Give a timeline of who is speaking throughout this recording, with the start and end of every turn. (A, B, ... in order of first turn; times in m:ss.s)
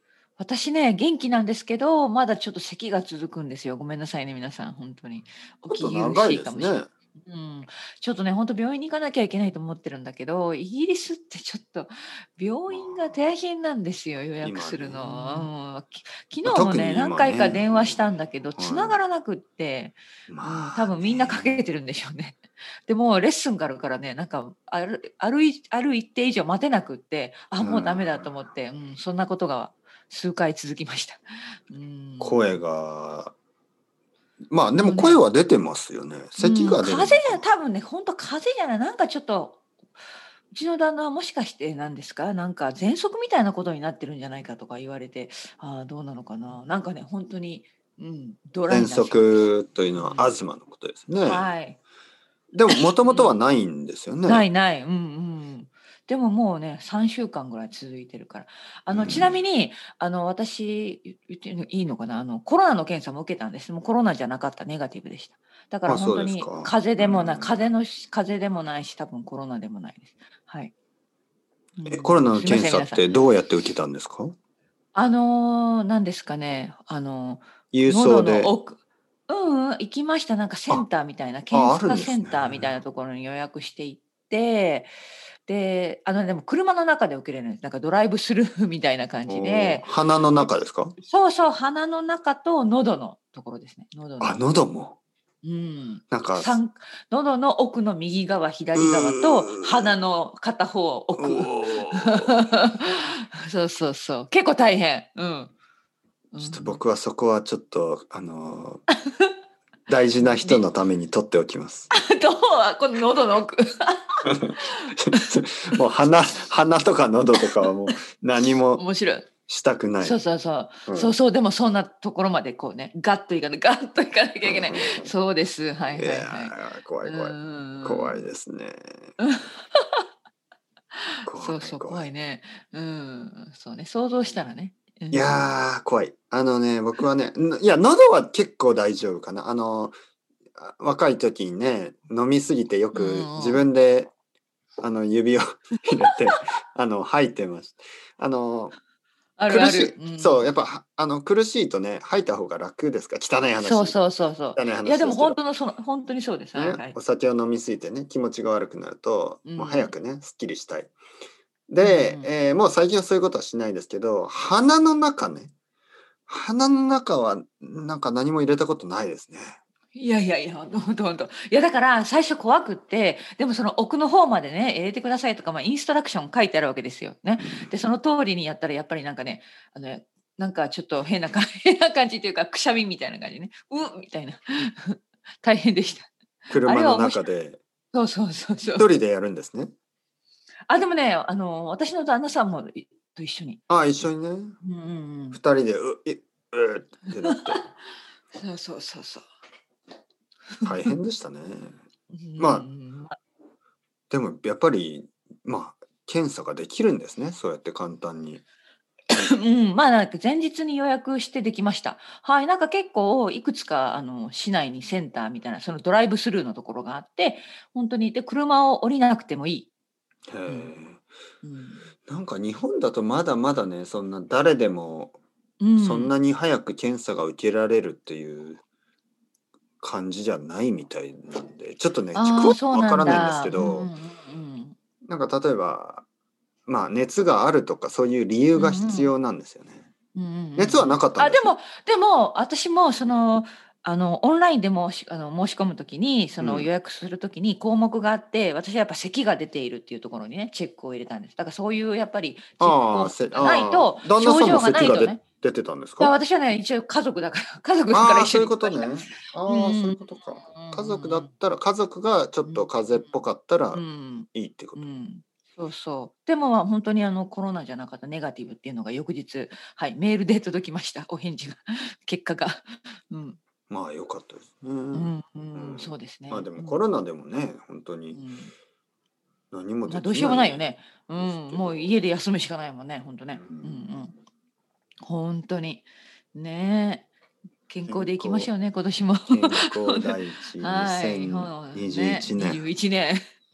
0:00.4-0:32.6 A
0:05.7-0:06.9 B
0:12.7-0:13.2 B
0:14.4-0:15.5 B
0:16.4-0:19.0 B
0:20.3-0:21.6 B
0:27.6-0:28.5 B
0:32.2-0:33.3 B
0:34.5-0:37.4 B
0:34.8-0:35.2 A
0:36.4-0:39.6 A
0:40.5-0:50.3 A
0:48.7-0:51.5 B
0:51.2-0:51.8 A
0:52.5-0:54.5 B
0:52.7-0:53.4 A
0:54.2-1:10.7 A
0:58.9-0:59.4 B
1:05.8-1:07.6 B
1:11.8-1:13.0 A
1:11.8-1:14.3 B
1:14.9-1:24.9 A
1:17.7-1:18.5 B
1:21.5-1:22.7 B
1:25.4-1:29.9 A
1:29.3-1:30.9 B
1:31.0-1:34.4 A
1:34.2-1:35.0 B
1:35.4-1:45.5 A
1:36.1-1:36.6 B
1:38.7-1:39.9 B
1:41.1-1:42.5 B
1:46.3-1:46.8 A
1:46.4-1:48.8 B
1:49.9-1:51.9 B
1:50.2-1:50.6 A
1:51.9-1:55.2 A
1:54.2-1:58.8 B
1:58.7-1:59.3 A
1:59.5-2:00.2 B
2:00.0-2:08.2 A
2:00.9-2:01.1 B
2:04.4-2:05.1 B
2:05.9-2:09.1 B
2:09.2-2:10.0 A
2:11.2-2:15.5 A
2:11.3-2:12.1 B
2:15.1-2:20.0 B
2:20.6-2:24.1 B
2:22.9-2:23.7 A
2:24.8-2:28.7 B
2:29.4-2:30.5 A
2:29.5-2:34.0 B
2:33.6-2:36.9 A
2:34.6-2:35.4 B
2:36.5-2:40.9 B
2:39.4-2:39.9 A
2:41.7-2:45.5 B
2:41.8-2:42.3 A
2:46.3-2:49.6 B
2:49.9-3:07.2 A
2:57.4-2:57.7 B
3:06.5-3:07.6 B
3:07.9-3:08.9 A
3:08.8-3:09.7 B
3:10.7-3:14.1 A
3:13.7-3:14.6 B
3:14.6-3:15.4 A
3:15.3-3:17.6 B
3:17.2-3:17.6 A
3:18.3-3:19.2 A
3:20.6-3:20.9 A
3:20.6-3:21.7 B
3:22.1-3:23.2 A
3:22.4-3:22.7 B
3:24.1-3:28.4 B
3:29.1-3:39.7 A
3:40.3-3:41.0 B
3:40.4-3:40.7 A
3:41.4-3:41.9 A
3:42.1-3:45.2 B
3:45.6-3:46.1 A
3:45.8-3:48.6 B
3:49.8-3:53.9 B
3:52.1-3:54.7 A
3:55.0-3:56.0 B
3:56.7-3:59.9 B
3:58.6-3:59.1 A
4:00.1-4:15.2 A
4:00.6-4:01.5 B
4:06.4-4:06.7 B
4:12.6-4:16.2 B
4:16.0-4:21.3 A
4:17.9-4:24.8 B
4:22.4-4:23.0 A
4:23.7-4:33.4 A
4:33.7-4:38.2 B
4:34.9-4:36.8 A
4:38.1-4:38.5 A
4:39.5-4:40.6 B
4:39.9-4:44.1 A
4:41.1-4:42.0 B
4:43.4-4:44.1 B
4:45.0-4:47.1 A
4:47.7-4:53.2 A
4:47.9-4:48.5 B
4:49.3-4:52.6 B